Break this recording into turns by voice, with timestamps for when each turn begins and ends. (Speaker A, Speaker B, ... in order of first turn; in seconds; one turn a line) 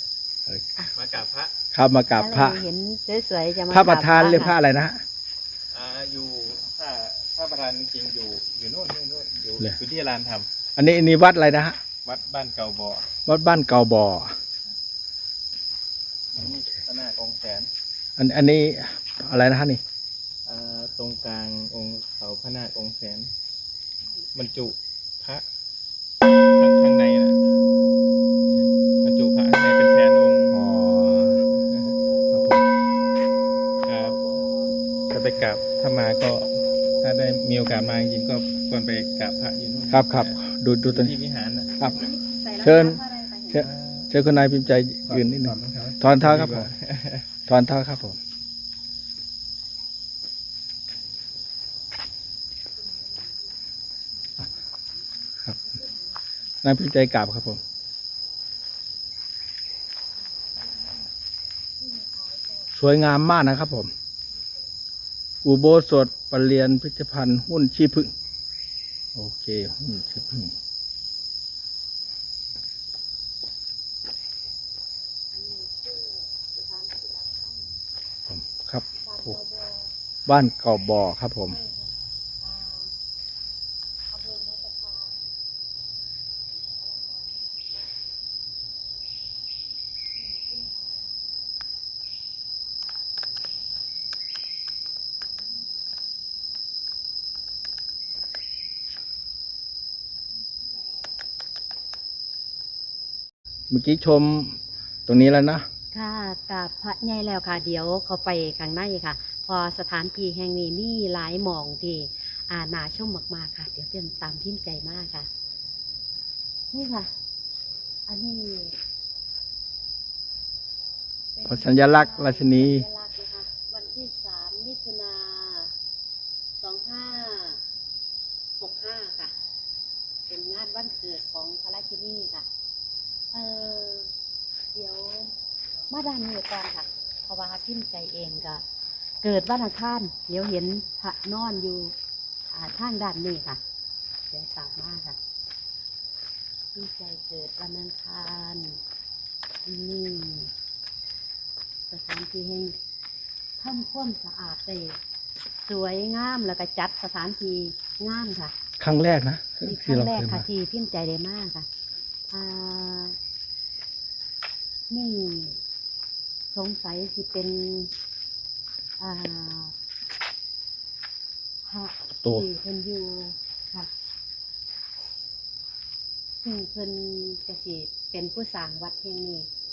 Speaker A: 0.9-1.5
Speaker B: 1.7-2.6
Speaker C: 2.2-4.5
Speaker B: 3.7-5.0
Speaker A: 5.7-10.5
Speaker B: 10.8-11.8
Speaker A: 12.0-13.1
Speaker B: 13.3-14.4
Speaker A: 16.4-17.7
Speaker B: 18.2-19.8
Speaker A: 20.5-23.3
Speaker A: 24.3-25.4
Speaker A: 26.5-27.4
Speaker A: 29.0-30.6
Speaker B: 30.5-31.4
Speaker B: 32.3-32.7
Speaker A: 33.9-34.2
Speaker A: 35.1-40.4
Speaker B: 39.9-41.1
Speaker A: 40.9-41.7
Speaker C: 41.8-43.7
Speaker B: 42.6-43.0
Speaker B: 43.5-46.7
Speaker A: 43.7-44.1
Speaker A: 45.1-47.3
Speaker B: 47.5-48.2
Speaker B: 56.6-57.6
Speaker B: 62.7-63.9
Speaker B: 65.4-68.1
Speaker B: 69.1-70.6
Speaker C: 75.4-75.9
Speaker C: 76.6-77.4
Speaker B: 78.3-79.4
Speaker B: 80.3-81.6
Speaker C: 82.5-82.8
Speaker C: 84.3-85.0
Speaker B: 103.7-105.7
Speaker C: 105.9-115.3
Speaker C: 116.7-117.1
Speaker C: 118.1-118.8
Speaker C: 121.4-125.7
Speaker B: 121.5-122.9
Speaker C: 126.6-127.6
Speaker C: 128.6-129.3
Speaker C: 130.3-132.5
Speaker C: 133.3-134.1
Speaker C: 134.7-135.3
Speaker C: 135.9-138.6
Speaker C: 139.2-141.9
Speaker C: 142.5-143.6
Speaker C: 144.3-145.2
Speaker C: 146.8-148.8
Speaker C: 149.7-150.5
Speaker C: 151.9-152.8
Speaker C: 153.6-155.0
Speaker C: 155.7-158.5
Speaker B: 158.8-160.5
Speaker C: 159.6-161.7
Speaker C: 162.3-163.2
Speaker C: 164.9-165.6
Speaker C: 166.5-167.9
Speaker C: 169.0-169.7
Speaker C: 171.7-173.9
Speaker C: 176.4-179.5